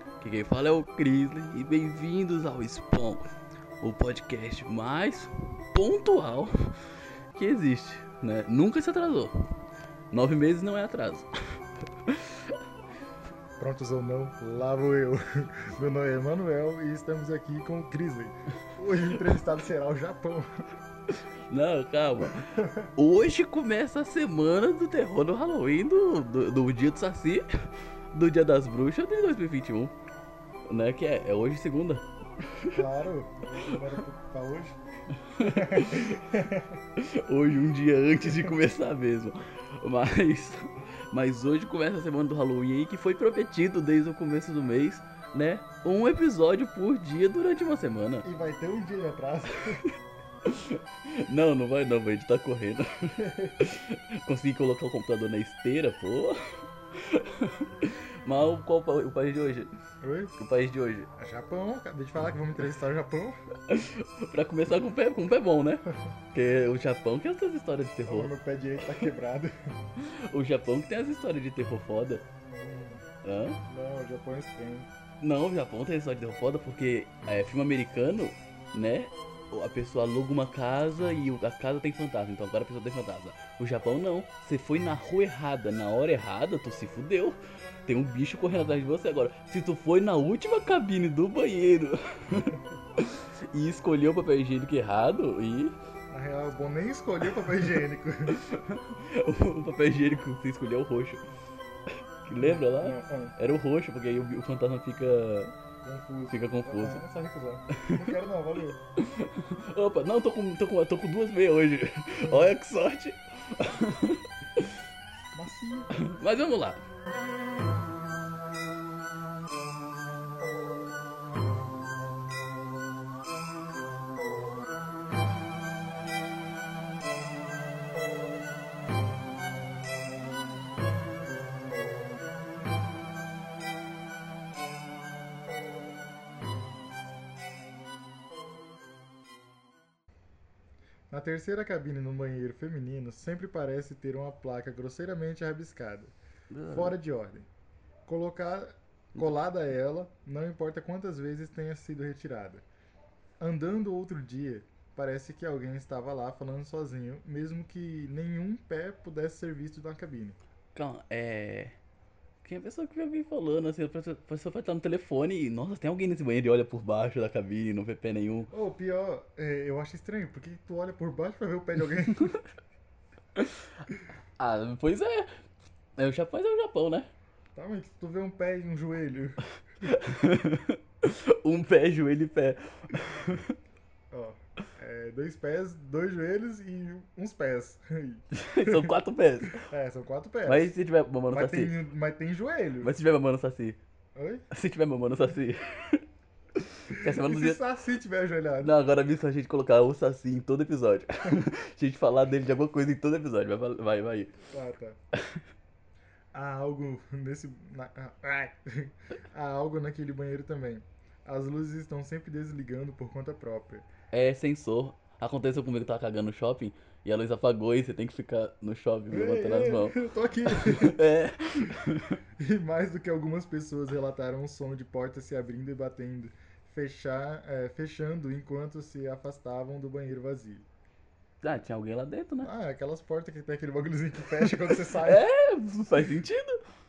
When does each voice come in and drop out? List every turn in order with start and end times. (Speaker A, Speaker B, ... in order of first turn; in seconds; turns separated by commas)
Speaker A: 0.2-3.2, Speaker A: 3.8-6.8, Speaker A: 7.3-9.5, Speaker A: 10.1-11.3, Speaker A: 12.1-12.6, Speaker B: 13.6-20.7, Speaker A: 21.1-29.9, Speaker B: 22.3-22.9, Speaker A: 30.7-32.8, Speaker B: 32.7-34.8, Speaker A: 35.3-36.1, Speaker B: 35.4-36.8, Speaker A: 37.0-48.3, Speaker B: 48.2-49.8, Speaker A: 50.5-56.4, Speaker B: 53.2-53.6, Speaker A: 57.0-59.7, Speaker B: 60.0-60.3, Speaker A: 60.4-61.1, Speaker B: 61.2-63.4, Speaker A: 63.7-68.3, Speaker B: 68.1-69.8, Speaker A: 70.0-72.2, Speaker B: 72.5-73.0, Speaker A: 73.2-73.6, Speaker B: 73.7-74.9, Speaker A: 75.2-95.8, Speaker B: 96.1-98.4, Speaker A: 98.3-101.2, Speaker A: 102.3-105.5, Speaker B: 102.4-103.3, Speaker B: 105.8-108.8, Speaker A: 106.3-107.0, Speaker A: 107.7-108.1, Speaker A: 109.0-114.8, Speaker B: 112.2-112.5, Speaker B: 115.3-115.9, Speaker A: 116.0-116.8, Speaker B: 141.1-146.2, Speaker A: 146.5-146.9, Speaker B: 146.7-147.5, Speaker B: 148.1-152.7, Speaker B: 153.4-160.4, Speaker A: 160.8-161.8, Speaker A: 162.4-168.5, Speaker B: 168.5-172.4, Speaker A: 173.3-173.7, Speaker A: 174.4-175.3, Speaker A: 176.0-177.1, Speaker B: 177.6-179.9, Speaker A: 179.8-183.6, Speaker B: 184.1-188.9, Speaker A: 188.3-189.6, Speaker B: 189.6-190.7, Speaker A: 190.5-191.7, Speaker B: 191.3-192.9, Speaker A: 192.8-193.8, Speaker B: 194.2-194.5, Speaker A: 194.5-196.0, Speaker A: 196.6-197.6, Speaker B: 196.9-198.7, Speaker A: 198.6-204.3, Speaker B: 204.5-205.0, Speaker B: 206.3-213.9, Speaker A: 214.1-222.2, Speaker B: 219.1-221.0, Speaker B: 222.4-230.7, Speaker A: 231.4-232.5, Speaker B: 232.4-235.3, Speaker A: 234.9-236.6